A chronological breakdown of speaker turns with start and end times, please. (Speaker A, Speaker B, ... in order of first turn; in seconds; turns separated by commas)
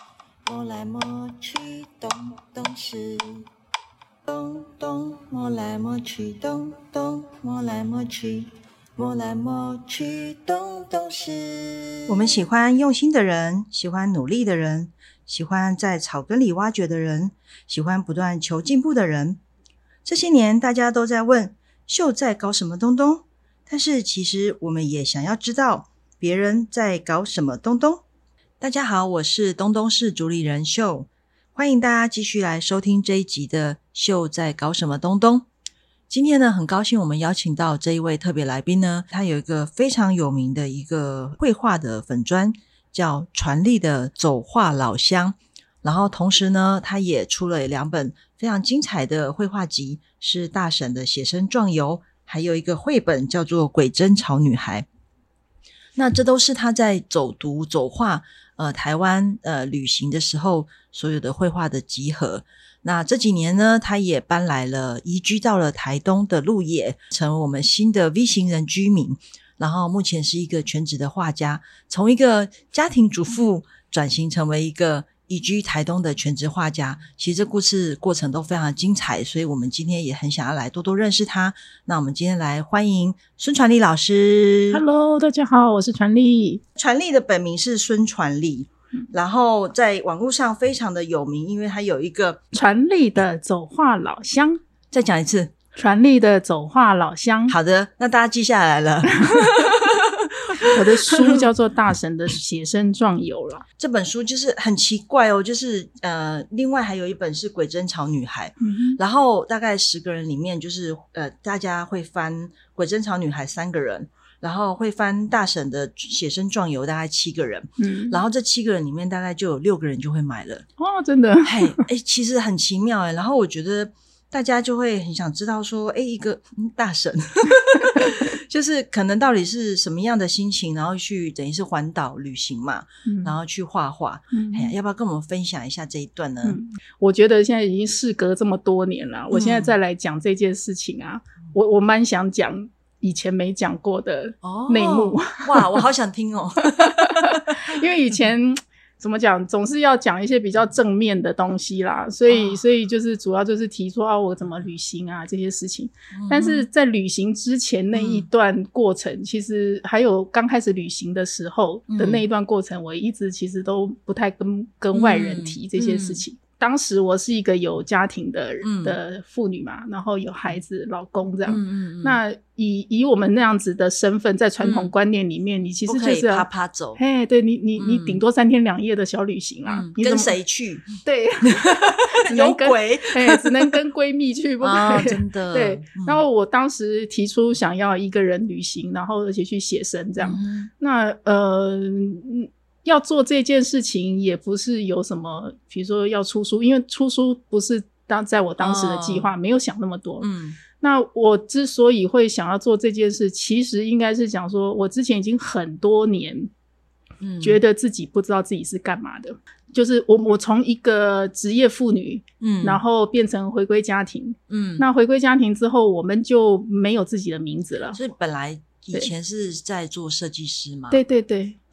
Speaker A: 0.4-3.5, Speaker A: 4.2-12.4, Speaker B: 12.1-19.4, Speaker B: 20.0-28.0, Speaker B: 28.6-35.5, Speaker B: 36.1-54.9, Speaker B: 56.0-84.8, Speaker C: 84.7-86.6, Speaker B: 86.7-92.4, Speaker C: 92.5-94.6, Speaker B: 94.9-95.5, Speaker C: 95.8-97.5, Speaker B: 97.5-101.5, Speaker C: 99.2-99.7, Speaker C: 100.6-103.6, Speaker B: 103.8-120.6, Speaker C: 108.6-109.0, Speaker C: 117.8-118.2, Speaker C: 120.8-121.8, Speaker B: 121.4-136.6, Speaker C: 133.0-133.3, Speaker C: 134.3-134.7, Speaker C: 136.4-145.8, Speaker B: 139.3-139.7, Speaker B: 144.4-147.8, Speaker C: 146.8-180.3, Speaker B: 152.3-152.6, Speaker B: 156.1-156.7, Speaker B: 157.9-158.2, Speaker B: 161.9-162.2, Speaker B: 164.9-166.2, Speaker B: 168.6-169.0, Speaker B: 171.4-172.2, Speaker B: 174.6-174.9, Speaker B: 175.8-177.0, Speaker B: 177.8-178.2, Speaker B: 179.7-180.9, Speaker C: 181.0-206.5, Speaker B: 181.4-183.8, Speaker B: 184.6-186.2, Speaker B: 190.2-190.7, Speaker B: 198.6-199.3, Speaker B: 200.2-200.6, Speaker B: 207.2-207.6, Speaker C: 207.4-218.0, Speaker B: 212.4-212.8, Speaker B: 214.5-214.8, Speaker B: 217.9-221.0, Speaker C: 220.9-221.6